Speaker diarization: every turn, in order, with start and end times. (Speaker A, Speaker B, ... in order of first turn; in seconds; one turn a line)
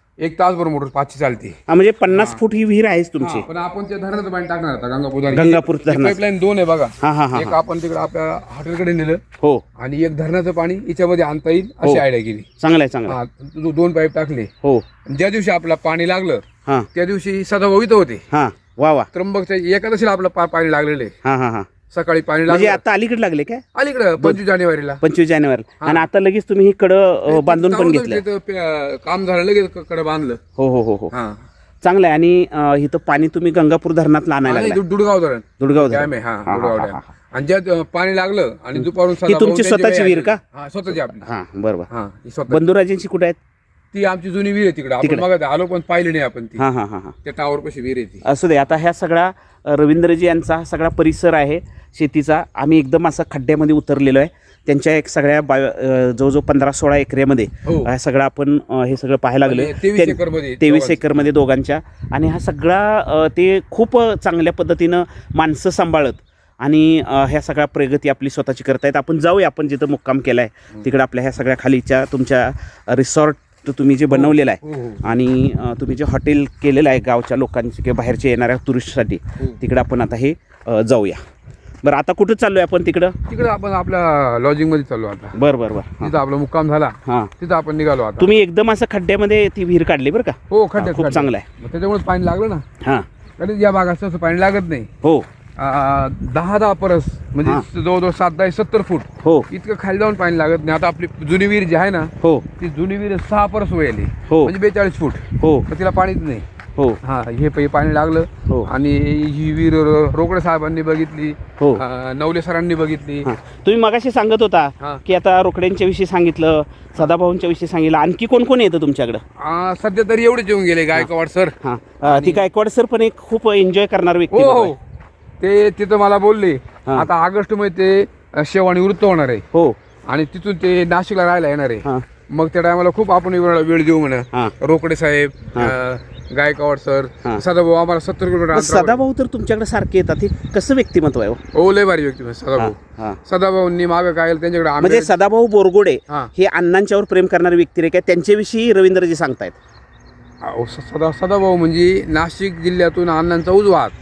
Speaker A: 0.2-1.6
Speaker B: 1.7-3.5
Speaker A: 2.1-2.4
Speaker A: 3.2-9.2
Speaker B: 5.3-6.2
Speaker B: 7.0-7.5
Speaker A: 9.8-12.5
Speaker B: 12.6-13.2
Speaker A: 13.1-14.5
Speaker A: 15.1-18.2
Speaker B: 18.3-19.1
Speaker A: 19.1-21.1
Speaker B: 21.2-21.7
Speaker A: 21.9-22.8
Speaker B: 22.5-23.6
Speaker A: 23.8-25.0
Speaker B: 25.0-28.2
Speaker A: 27.3-30.4
Speaker B: 30.6-31.1
Speaker A: 31.1-31.4
Speaker B: 31.8-34.8
Speaker A: 34.5-41.3
Speaker B: 35.6-37.1
Speaker B: 38.8-40.4
Speaker B: 40.9-41.9
Speaker A: 41.9-42.6
Speaker B: 42.5-43.4
Speaker A: 43.9-46.7
Speaker B: 46.6-47.1
Speaker A: 47.2-48.2
Speaker B: 48.2-81.2
Speaker A: 57.6-57.9
Speaker A: 59.5-61.2
Speaker A: 74.1-75.1
Speaker B: 81.8-83.2
Speaker A: 83.3-85.4
Speaker B: 85.3-86.1
Speaker A: 86.0-88.3
Speaker B: 87.1-87.3
Speaker B: 88.2-91.5
Speaker A: 90.5-92.7
Speaker B: 92.8-93.1
Speaker A: 93.4-94.9
Speaker A: 95.6-106.5
Speaker B: 99.2-99.5
Speaker B: 102.2-102.5
Speaker B: 104.3-104.5
Speaker B: 105.4-105.7
Speaker A: 107.0-113.3
Speaker B: 113.2-119.2
Speaker A: 119.4-122.5
Speaker B: 121.6-124.7
Speaker A: 124.3-124.8
Speaker A: 125.4-129.4
Speaker A: 130.1-139.0
Speaker B: 138.5-141.4
Speaker A: 141.5-145.1
Speaker B: 142.6-143.2
Speaker B: 144.8-149.6
Speaker A: 150.4-153.9